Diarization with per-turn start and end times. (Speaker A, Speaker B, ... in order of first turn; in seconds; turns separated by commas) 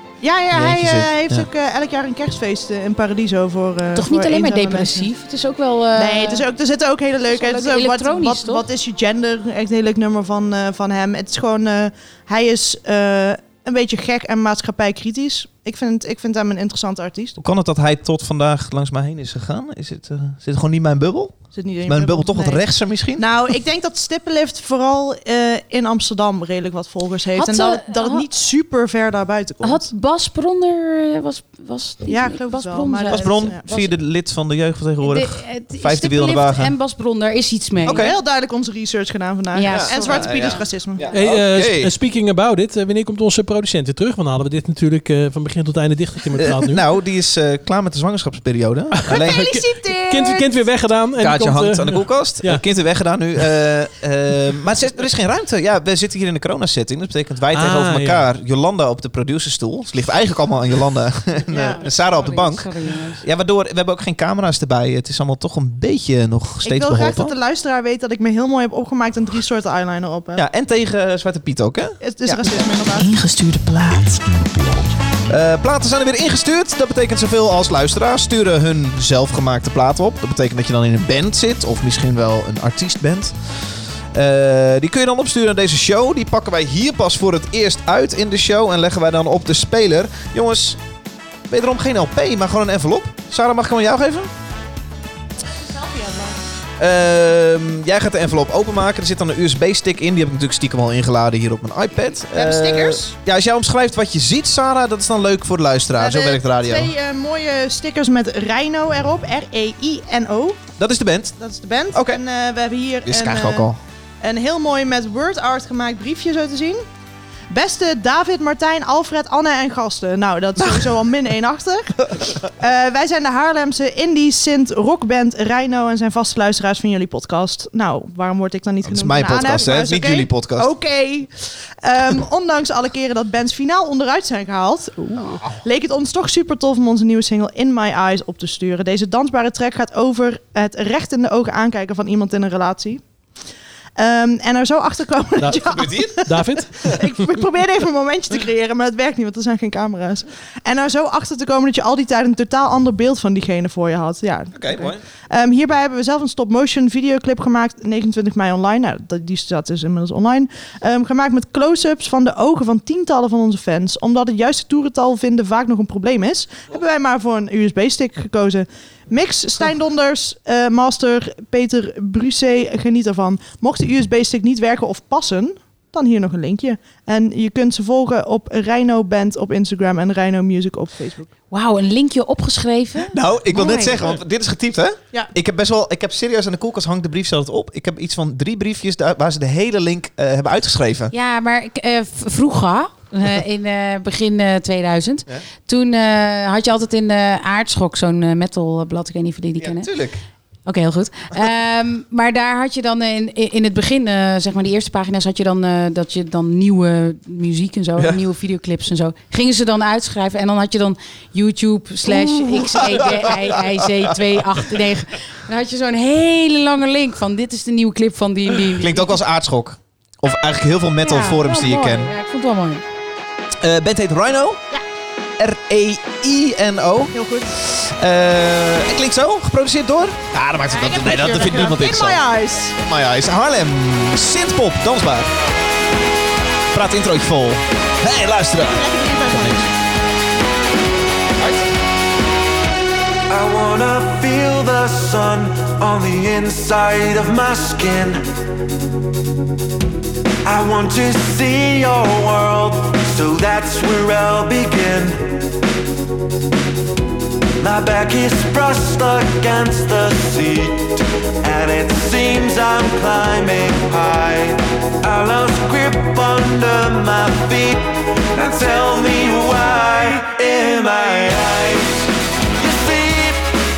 Speaker A: 0.2-5.1, Speaker B: 0.5-1.5, Speaker C: 3.9-6.5, Speaker A: 6.0-17.4, Speaker C: 7.3-8.7, Speaker B: 17.4-23.3, Speaker A: 21.5-29.9, Speaker C: 27.4-28.3, Speaker C: 29.6-33.9, Speaker A: 32.1-33.6, Speaker B: 33.1-36.8, Speaker C: 35.0-38.1, Speaker B: 37.9-38.2, Speaker A: 37.9-41.1, Speaker C: 39.5-40.6, Speaker B: 39.6-41.9, Speaker D: 41.1-46.8, Speaker B: 46.3-49.5, Speaker D: 48.9-52.6, Speaker A: 49.1-50.5, Speaker B: 51.2-67.3, Speaker D: 57.5-58.3, Speaker C: 61.5-63.2, Speaker A: 66.6-70.4, Speaker B: 70.3-72.6, Speaker A: 72.0-73.1, Speaker B: 75.3-83.4, Speaker B: 84.1-90.8, Speaker B: 91.5-94.3, Speaker A: 95.5-96.4, Speaker B: 96.8-106.9, Speaker A: 102.3-103.1, Speaker A: 106.0-110.7, Speaker B: 110.8-111.4, Speaker A: 111.4-113.7, Speaker B: 111.9-112.2, Speaker B: 113.0-113.8, Speaker A: 114.2-116.8, Speaker A: 117.5-143.1, Speaker B: 120.6-121.0, Speaker B: 128.8-130.7, Speaker A: 144.0-181.3, Speaker D: 145.4-147.0, Speaker B: 145.6-146.2, Speaker B: 154.5-155.0, Speaker C: 181.5-184.1, Speaker B: 183.1-191.1, Speaker C: 191.1-199.9, Speaker B: 199.6-200.2, Speaker C: 200.7-219.2, Speaker B: 212.1-214.1, Speaker B: 218.7-222.1, Speaker C: 221.0-222.8, Speaker B: 223.6-224.6, Speaker B: 225.4-232.2, Speaker A: 227.1-227.6, Speaker A: 230.7-232.8, Speaker B: 232.8-235.3, Speaker B: 236.7-239.7, Speaker A: 238.6-239.7, Speaker E: 243.3-248.3, Speaker E: 250.4-255.5, Speaker E: 257.6-273.5